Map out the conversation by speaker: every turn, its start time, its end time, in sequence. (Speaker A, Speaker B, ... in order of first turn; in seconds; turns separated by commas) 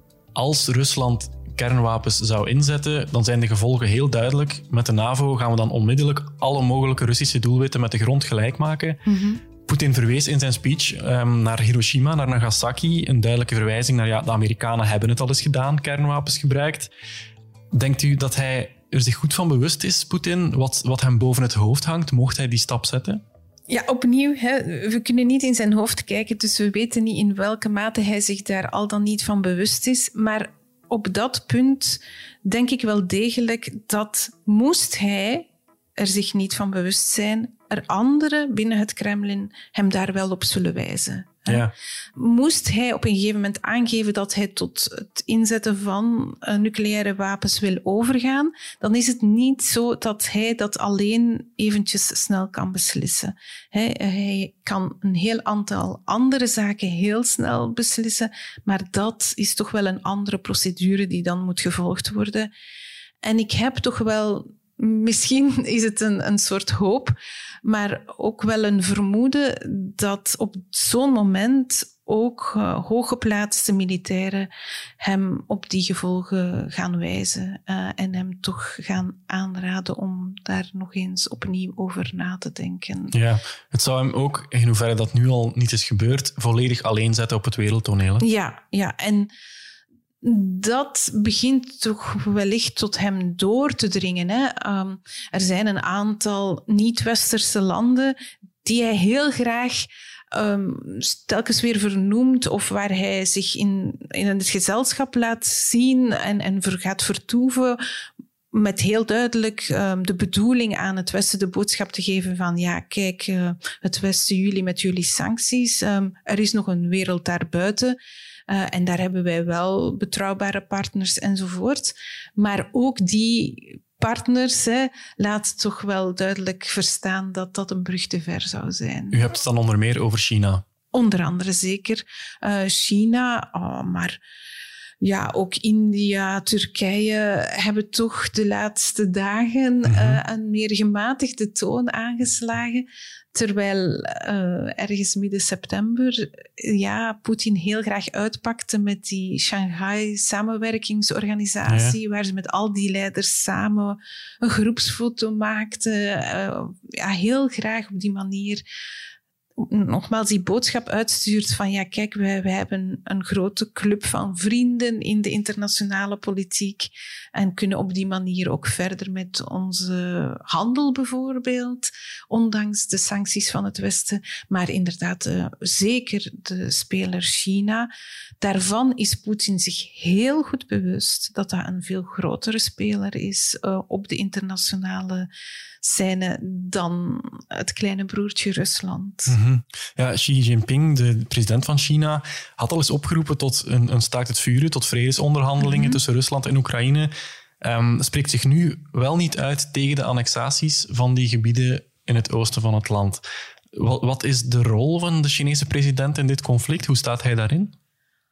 Speaker A: 0.3-9.0, Speaker B: 9.1-9.4, Speaker A: 9.6-16.9, Speaker A: 17.7-23.2, Speaker B: 23.7-62.5, Speaker A: 41.5-41.7, Speaker B: 63.2-83.1, Speaker A: 83.1-88.2, Speaker B: 88.2-89.3, Speaker B: 90.2-107.8, Speaker B: 108.5-118.0, Speaker B: 118.5-129.2, Speaker A: 129.1-130.6, Speaker B: 130.9-134.2, Speaker B: 135.0-158.6, Speaker A: 139.8-140.2, Speaker A: 151.7-152.0, Speaker B: 159.6-177.9, Speaker B: 178.4-185.3, Speaker B: 185.8-189.4, Speaker A: 189.3-207.7, Speaker B: 195.6-196.0